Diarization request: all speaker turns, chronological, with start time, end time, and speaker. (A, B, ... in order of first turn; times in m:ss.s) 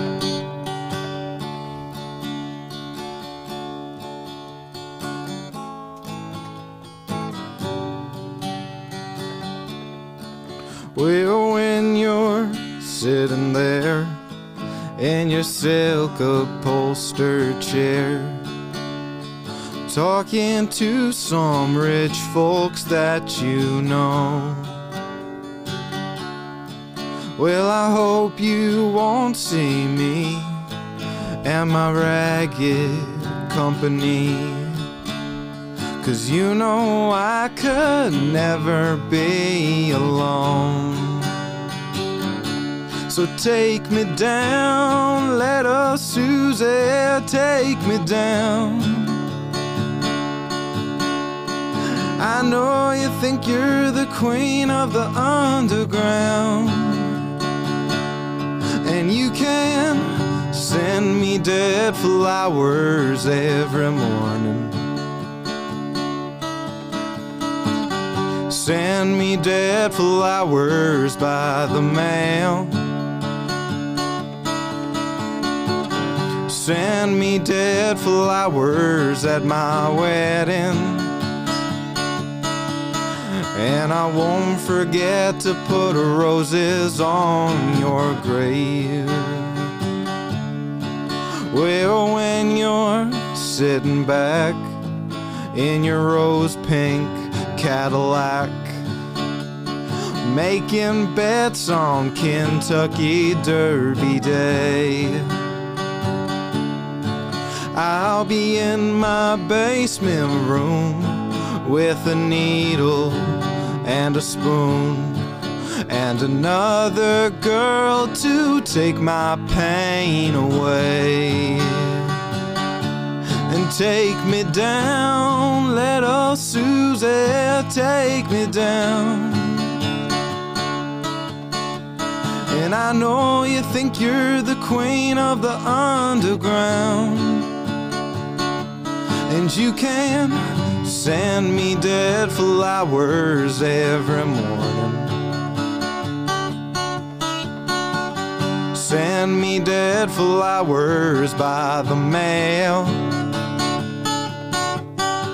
0:10.9-0:14.2 A
0:15.0-0:18.5 A
0:19.9-0:24.9 A
0:27.4-0:30.8 A
0:31.4-0:34.9 A
0:36.0-0:41.4 A
0:43.1-0:49.4 A
0:51.8-0:57.4 A
0:58.8-1:04.9 A
1:08.5-1:12.8 A
1:16.5-1:21.2 A
1:23.1-1:29.8 A
1:31.2-1:34.8 A
1:35.5-1:38.8 A
1:39.9-1:45.4 A
1:47.7-2:02.2 A
2:03.3-2:09.8 A
2:12.4-2:17.6 A
2:19.3-2:25.2 A
2:28.7-2:33.2 A